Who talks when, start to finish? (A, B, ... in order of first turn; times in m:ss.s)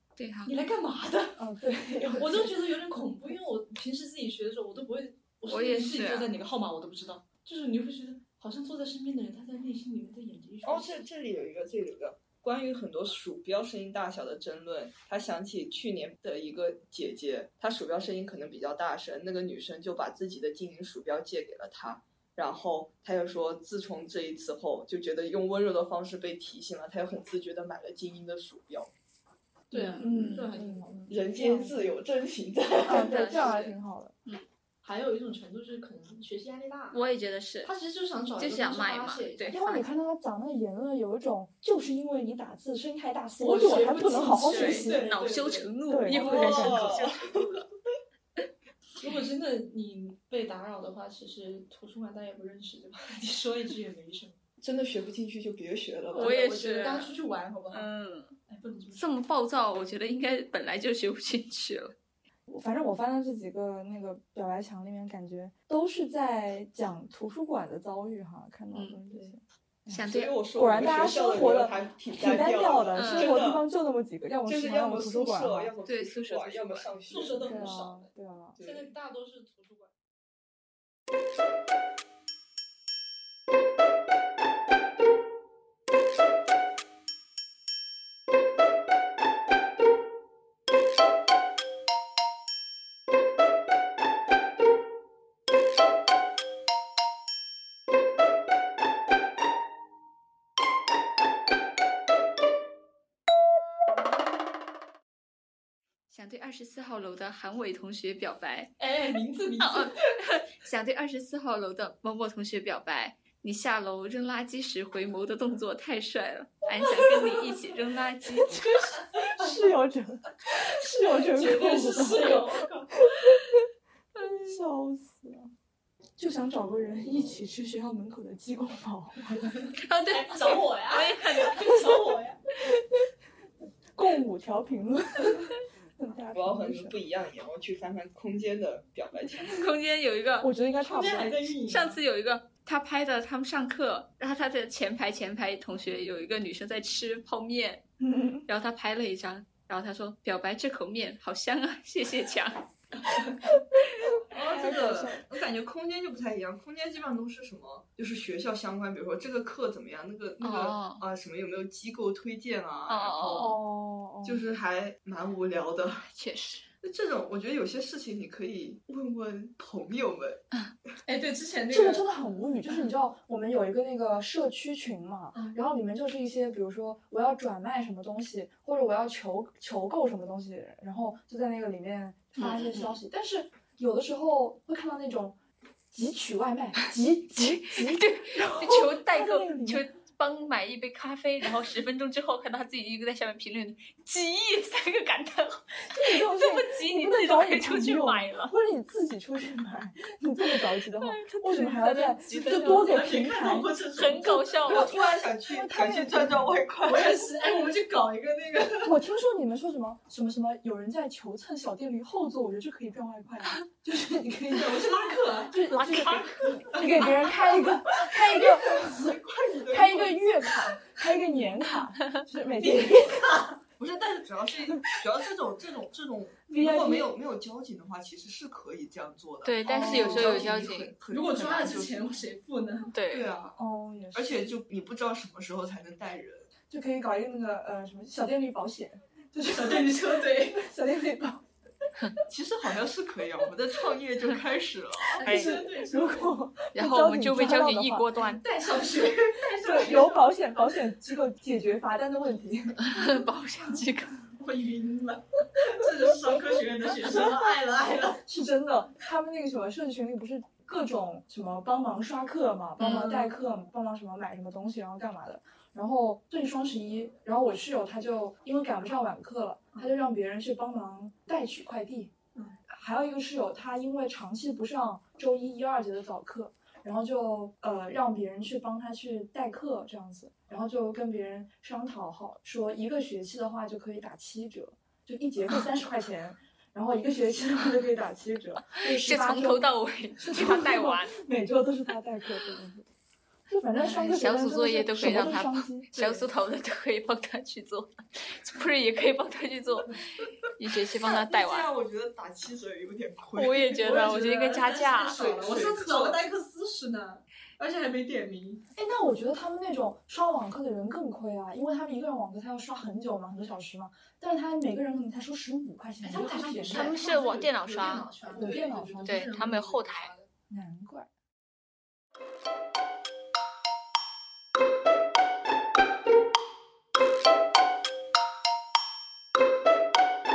0:00.2-0:00.6 A
0:00.4-0:01.4 B
0:01.4-0:03.0 C
0:02.1-0:11.0 B
0:05.5-0:06.3 A
0:10.6-0:28.9 D
0:29.7-0:31.0 B
0:29.7-0:30.1 A
0:30.0-0:31.9 C
0:31.1-0:33.3 D
0:32.8-0:34.1 C
0:32.9-0:34.4 A
0:34.8-0:37.0 B
0:36.9-0:37.7 A
0:37.6-0:39.5 B
0:38.4-0:39.9 A
0:39.5-0:45.0 C
0:43.4-0:46.2 B
0:44.4-0:47.7 A
0:45.9-0:46.9 C
0:46.1-0:47.6 D
0:49.0-0:54.4 B
0:54.6-0:56.3 D
0:56.1-0:57.9 B
0:56.2-0:57.1 A
0:57.7-0:58.4 A
0:58.5-0:59.2 B
0:58.9-1:01.9 A
1:02.5-1:15.7 C
1:08.7-1:09.0 A
1:09.9-1:10.4 A
1:10.0-1:13.6 D
1:13.0-1:13.4 A
1:14.4-1:17.6 D
1:15.8-1:16.9 A
1:17.1-1:19.9 B
1:17.4-1:18.6 C
1:18.6-1:18.9 D
1:46.1-1:48.7 A
1:48.8-1:50.0 B
1:49.6-1:58.6 A
1:56.9-1:57.5 B
1:58.5-1:59.8 B
1:59.1-2:03.6 C
2:00.5-2:02.9 B
2:04.3-2:05.5 C
2:06.2-2:09.7 C
2:09.7-2:11.8 A
2:10.1-2:12.4 B
2:12.7-2:13.0 C
2:13.9-2:16.9 C
2:16.3-2:19.6 D
2:19.4-2:20.5 A
2:20.4-2:21.5 C
2:20.8-2:22.0 B
2:21.7-2:27.8 A
2:28.0-2:28.4 C
2:28.4-2:32.6 A
2:34.2-2:35.3 C
2:34.3-2:43.6 D
2:40.4-2:41.0 A
2:42.9-2:43.6 A
2:43.3-2:44.4 C
2:44.2-2:46.0 D
2:46.0-2:46.7 A
2:46.8-2:50.4 D
2:51.0-2:52.1 B
2:51.7-3:05.4 C
3:02.4-3:03.0 A
3:05.9-3:09.8 C
3:07.7-3:18.6 A
3:15.9-3:23.7 C
3:21.0-3:23.0 A
3:22.3-3:24.6 B
3:23.9-3:25.0 A
3:24.6-3:27.3 D
3:24.8-3:26.5 C
3:26.8-3:29.0 B
3:28.8-3:39.2 C
3:34.5-3:36.1 B
3:35.7-3:37.1 A
3:36.7-3:37.7 B
3:38.4-3:40.5 D
3:39.7-3:43.3 C
3:42.4-3:43.6 B
3:43.8-3:52.2 D
3:46.5-3:47.1 C
3:49.4-3:50.9 A
3:49.6-3:50.5 C
3:49.9-3:52.9 B
3:52.9-3:53.3 A
3:53.1-3:53.6 D
3:53.6-3:54.4 C
3:54.1-3:56.5 D
3:56.7-4:01.4 C
3:59.4-4:00.6 B
4:02.3-4:05.2 D
4:05.2-4:06.4 B
4:05.2-4:05.6 A
4:05.2-4:08.1 C
4:06.7-4:08.4 A
4:08.3-4:10.8 B
4:09.6-4:13.0 C
4:12.8-4:14.2 A
4:14.4-4:18.2 B
4:17.0-4:17.4 C
4:18.2-4:32.1 C
4:22.8-4:23.4 A
4:32.7-4:52.9 C
4:48.7-4:51.1 A
4:53.5-4:56.3 C
4:53.8-5:00.0 A
5:00.5-5:01.7 A
5:01.0-5:03.8 D
5:03.3-5:05.4 A
5:03.6-5:08.6 B
5:05.2-5:06.2 D
5:08.8-5:16.9 C
5:16.0-5:20.3 B
5:16.7-5:20.1 A
5:18.3-5:19.3 C
5:20.5-5:21.1 C